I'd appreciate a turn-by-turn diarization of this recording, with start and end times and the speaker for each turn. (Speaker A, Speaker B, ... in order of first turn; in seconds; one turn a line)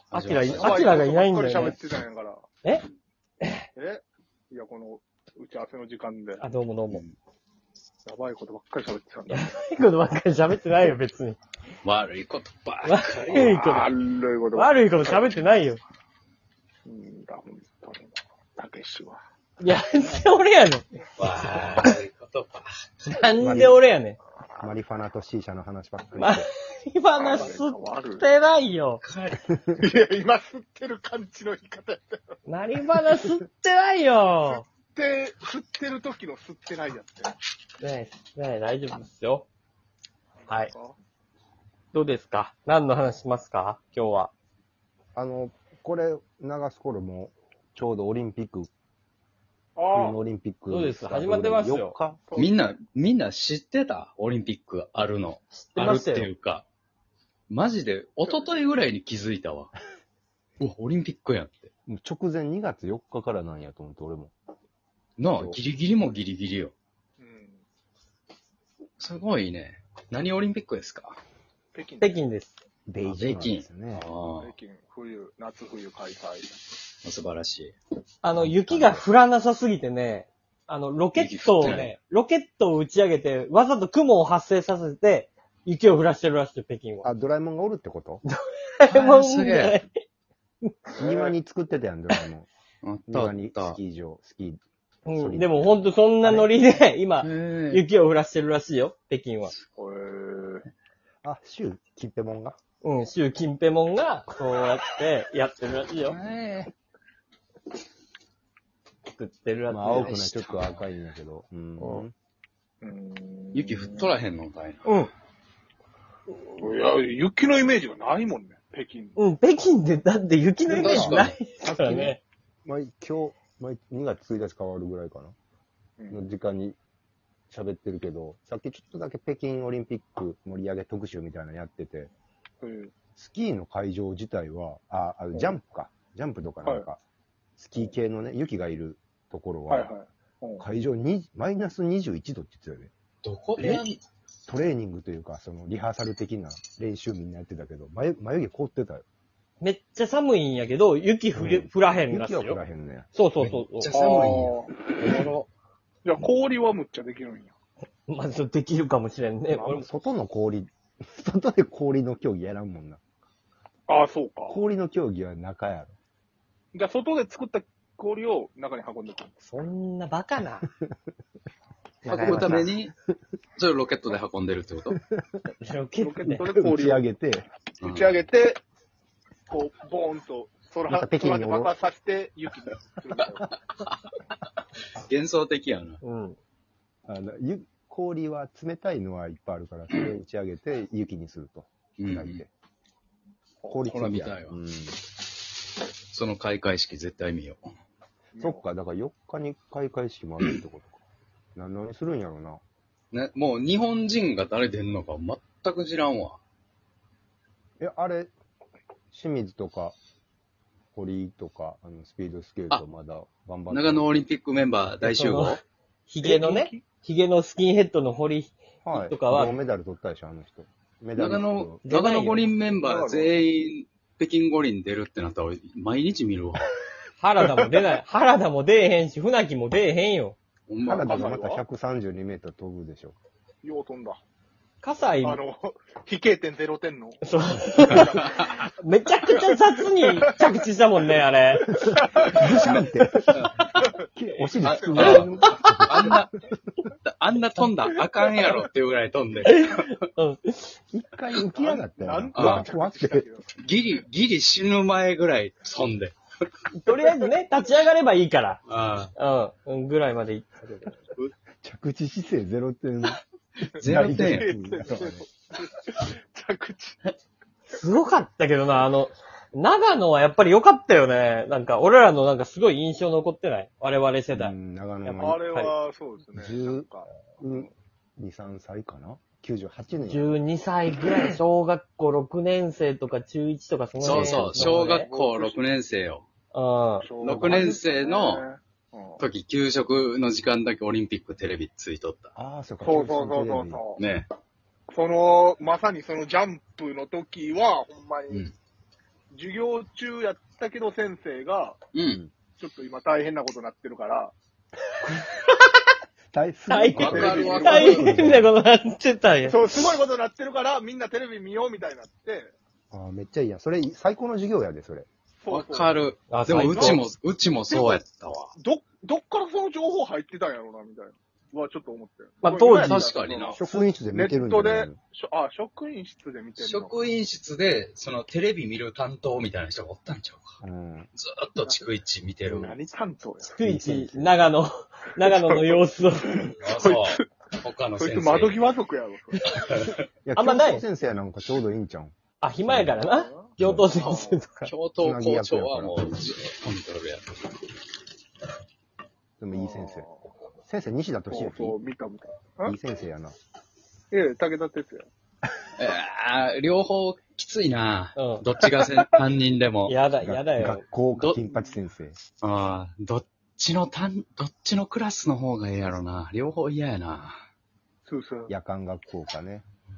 Speaker A: 0.1-1.0
Speaker B: 0.1-1.8
Speaker C: 0.5-2.4
Speaker B: 3.4-3.7
Speaker C: 3.8-6.4
Speaker B: 6.4-7.0
Speaker A: 6.9-7.2
Speaker C: 8.1-9.6
Speaker B: 9.3-11.4
Speaker A: 11.8-13.9
Speaker B: 12.8-13.9
Speaker C: 13.3-15.3
Speaker B: 14.6-15.8
Speaker C: 16.9-19.2
Speaker B: 19.6-21.9
Speaker A: 21.2-23.4
Speaker B: 23.1-24.2
Speaker D: 23.4-23.8
Speaker D: 24.6-26.5
Speaker B: 26.2-29.0
Speaker C: 27.1-28.2
Speaker A: 29.0-29.5
Speaker C: 29.8-32.4
Speaker B: 32.5-34.6
Speaker C: 34.5-37.3
Speaker B: 37.8-39.5
Speaker B: 40.5-40.7
Speaker C: 40.7-41.0
Speaker B: 41.9-44.3
Speaker D: 45.1-48.7
Speaker C: 49.8-50.2
Speaker D: 49.9-52.2
Speaker B: 50.7-52.0
Speaker C: 52.3-52.6
Speaker A: 52.4-56.7
Speaker B: 55.5-56.3
Speaker A: 57.5-59.7
Speaker C: 58.2-58.6
Speaker A: 60.6-61.7
Speaker D: 61.9-64.3
Speaker A: 65.2-66.7
Speaker C: 67.2-67.6
Speaker A: 69.0-71.2
Speaker C: 71.7-72.2
Speaker B: 72.0-72.6
Speaker D: 72.9-74.0
Speaker A: 73.0-74.5
Speaker C: 74.4-76.6
Speaker A: 77.0-77.7
Speaker B: 78.2-87.1
Speaker A: 78.3-79.0
Speaker A: 81.2-81.9
Speaker D: 87.0-88.2
Speaker B: 88.3-89.9
Speaker A: 88.9-89.8
Speaker C: 91.0-91.3
Speaker D: 91.0-92.5
Speaker A: 92.8-93.8
Speaker D: 93.1-96.6
Speaker B: 95.1-99.5
Speaker A: 97.2-97.8
Speaker C: 99.8-100.7
Speaker D: 101.2-102.6
Speaker B: 102.8-106.2
Speaker A: 106.0-106.7
Speaker B: 109.0-110.7
Speaker D: 109.7-112.1
Speaker B: 111.8-112.0
Speaker C: 112.8-114.1
Speaker A: 113.5-114.9
Speaker C: 116.3-119.2
Speaker B: 119.2-122.2
Speaker D: 120.7-125.3
Speaker A: 120.7-121.4
Speaker C: 126.0-126.2
Speaker D: 126.1-126.8
Speaker D: 127.5-132.1
Speaker C: 132.6-132.9
Speaker D: 133.2-137.0
Speaker D: 137.6-139.9
Speaker C: 139.7-140.6
Speaker D: 140.6-142.9
Speaker A: 143.2-144.0
Speaker D: 143.6-143.8
Speaker D: 144.5-149.0
Speaker B: 149.6-152.6
Speaker D: 151.3-153.1
Speaker B: 153.1-153.9
Speaker A: 153.4-154.7
Speaker C: 153.9-154.7
Speaker B: 155.0-155.5
Speaker C: 156.1-157.6
Speaker B: 158.1-159.9
Speaker D: 159.5-163.0
Speaker C: 163.9-164.6
Speaker D: 164.5-165.9
Speaker C: 166.7-169.4
Speaker B: 169.4-170.7
Speaker B: 172.0-172.7
Speaker A: 172.1-172.9
Speaker D: 172.2-172.8
Speaker A: 173.6-175.0
Speaker D: 175.1-175.4
Speaker B: 175.6-176.5
Speaker C: 176.0-177.0
Speaker D: 176.4-177.5
Speaker A: 177.8-178.2
Speaker C: 177.8-178.6
Speaker C: 179.5-183.6
Speaker D: 180.9-181.7
Speaker A: 183.2-184.0
Speaker A: 185.0-186.0
Speaker B: 186.0-186.4
Speaker D: 187.1-192.5
Speaker A: 192.0-192.4
Speaker D: 193.7-195.0
Speaker A: 193.9-194.6
Speaker A: 196.1-197.7
Speaker C: 198.3-198.6
Speaker D: 198.4-201.0
Speaker D: 201.6-202.6
Speaker A: 203.1-206.4
Speaker D: 207.8-208.3
Speaker D: 209.1-210.0
Speaker D: 210.9-214.2
Speaker A: 213.7-215.6
Speaker B: 215.0-219.6
Speaker C: 216.2-216.8
Speaker D: 218.8-221.8
Speaker A: 221.2-226.7
Speaker B: 221.8-222.5
Speaker C: 222.8-223.3
Speaker B: 227.2-230.4
Speaker A: 230.7-231.2
Speaker D: 230.8-233.2
Speaker C: 230.9-231.6
Speaker C: 233.6-234.2
Speaker B: 234.8-235.4
Speaker C: 235.2-237.2
Speaker B: 237.2-242.3
Speaker C: 237.8-238.3
Speaker A: 237.9-238.4
Speaker C: 239.3-240.3
Speaker C: 241.7-242.6
Speaker D: 241.8-243.4
Speaker A: 242.6-243.7
Speaker D: 244.0-246.3
Speaker C: 244.6-245.3
Speaker A: 244.6-246.3
Speaker A: 247.0-250.0
Speaker B: 249.4-250.8
Speaker D: 250.9-253.2
Speaker C: 251.5-253.7
Speaker A: 252.3-252.7
Speaker A: 253.6-256.2
Speaker B: 256.8-258.6
Speaker A: 258.7-259.1
Speaker B: 259.2-260.9
Speaker D: 261.6-263.2
Speaker A: 263.8-264.5
Speaker D: 263.8-265.3
Speaker C: 263.8-267.1
Speaker B: 267.7-274.5
Speaker D: 274.3-275.4
Speaker B: 275.1-275.7
Speaker C: 275.2-277.7
Speaker D: 276.3-280.4
Speaker B: 280.1-285.1
Speaker A: 284.0-286.2
Speaker C: 284.1-285.6
Speaker B: 286.5-287.1
Speaker C: 287.0-289.2
Speaker A: 287.2-288.4
Speaker A: 289.2-292.3
Speaker D: 292.4-293.8
Speaker C: 292.8-294.0
Speaker A: 294.0-294.3
Speaker C: 294.9-298.5
Speaker C: 299.3-301.8
Speaker A: 301.9-302.2
Speaker C: 302.6-304.4
Speaker D: 306.3-308.5
Speaker B: 306.7-309.6
Speaker C: 306.9-308.3
Speaker A: 306.9-308.2
Speaker C: 309.4-312.5
Speaker D: 312.9-315.1
Speaker C: 315.4-317.0
Speaker A: 315.5-318.5
Speaker B: 316.3-317.0
Speaker C: 317.7-327.0
Speaker B: 322.4-323.1
Speaker A: 322.8-323.6
Speaker D: 323.6-325.0
Speaker A: 326.6-330.6
Speaker D: 330.6-331.1
Speaker A: 331.2-332.8
Speaker C: 332.5-333.6
Speaker B: 333.5-336.5
Speaker D: 333.6-334.4
Speaker C: 335.2-337.3
Speaker A: 336.6-338.7
Speaker C: 337.9-339.6
Speaker A: 339.5-340.0
Speaker D: 340.2-342.1
Speaker B: 340.4-340.8
Speaker B: 342.4-344.7
Speaker D: 342.7-343.0
Speaker C: 343.0-344.4
Speaker D: 343.6-343.9
Speaker A: 344.6-347.4
Speaker D: 345.0-346.1
Speaker D: 349.4-350.1
Speaker C: 349.5-350.2
Speaker D: 350.7-351.8
Speaker C: 351.3-352.8
Speaker D: 352.6-353.4
Speaker C: 354.1-355.1
Speaker A: 355.8-360.0
Speaker B: 358.2-358.4
Speaker B: 359.9-360.8
Speaker D: 360.2-362.2
Speaker A: 361.1-361.4
Speaker A: 362.4-367.4
Speaker C: 368.1-368.5
Speaker D: 368.5-369.6